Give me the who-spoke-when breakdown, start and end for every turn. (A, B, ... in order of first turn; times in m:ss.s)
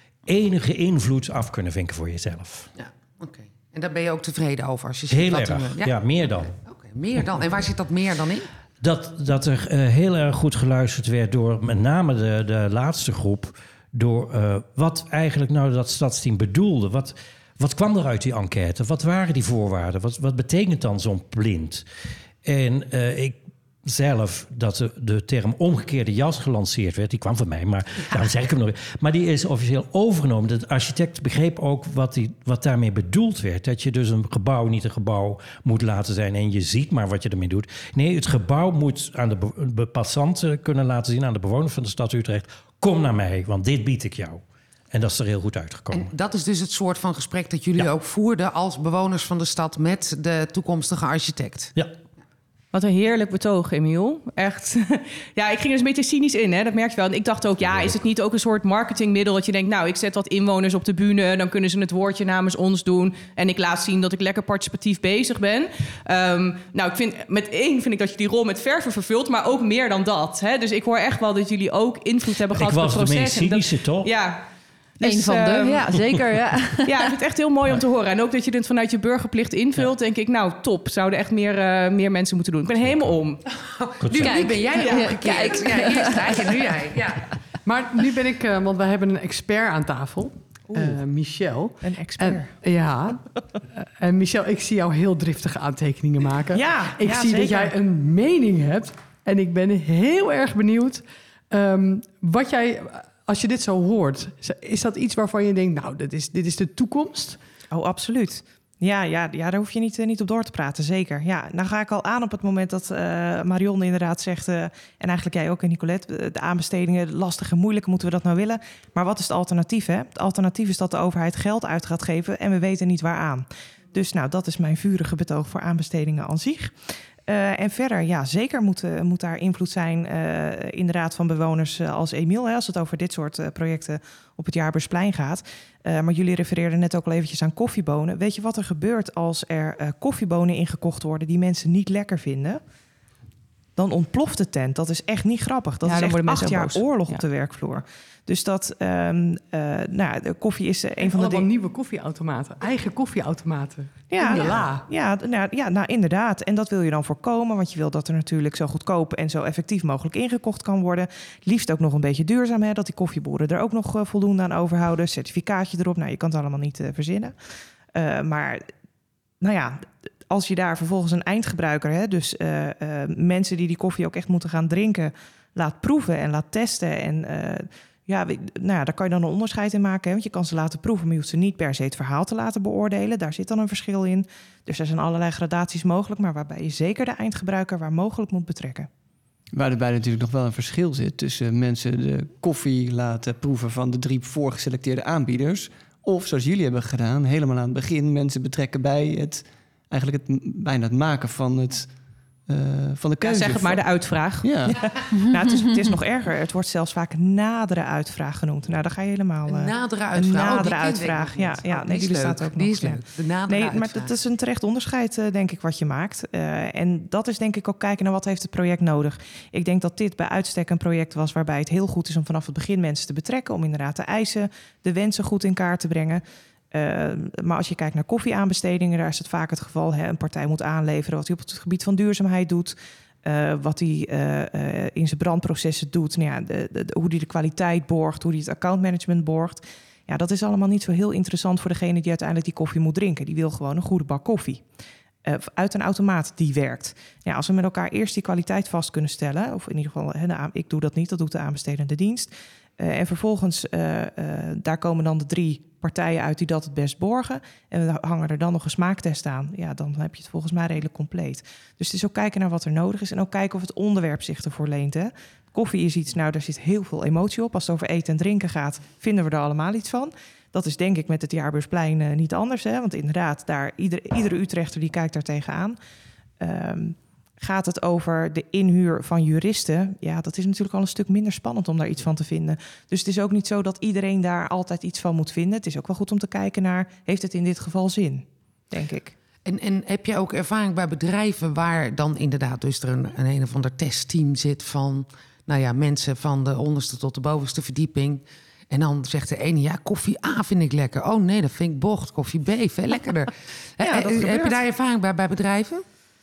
0:00.3-0:02.7 A
0:02.8-0:08.5 B
0:05.1-0:06.6 A
0:08.8-0:21.8 A
0:22.4-0:46.1 A
0:45.9-0:51.7 B
0:52.7-1:14.4 C
1:12.6-1:14.1 A
1:15.0-1:15.9 C
1:15.0-1:16.9 D
1:16.9-1:23.4 C
1:22.9-1:23.1 A
1:23.7-1:27.2 B
1:24.0-1:24.3 A
1:24.2-1:26.0 C
1:24.2-1:26.2 D
1:27.6-1:33.2 E
1:30.7-1:31.0 F
1:31.8-1:32.5 F
1:33.8-1:47.4 E
1:36.5-1:37.8 F
1:47.7-2:22.6 F
2:23.8-2:31.5 F
2:25.8-2:27.2 C
2:31.0-2:34.9 E
2:34.1-2:47.4 F
2:47.9-2:48.7 F
2:49.4-3:08.9 F
3:09.5-3:21.9 G
3:22.5-3:23.8 G
3:23.2-3:24.6 C
3:24.4-3:24.8 G
3:24.7-4:04.7 F
3:29.5-3:34.1 B
4:05.2-4:35.8 F
4:36.4-4:49.2 F
4:49.4-5:05.8 B
5:03.8-5:04.6 F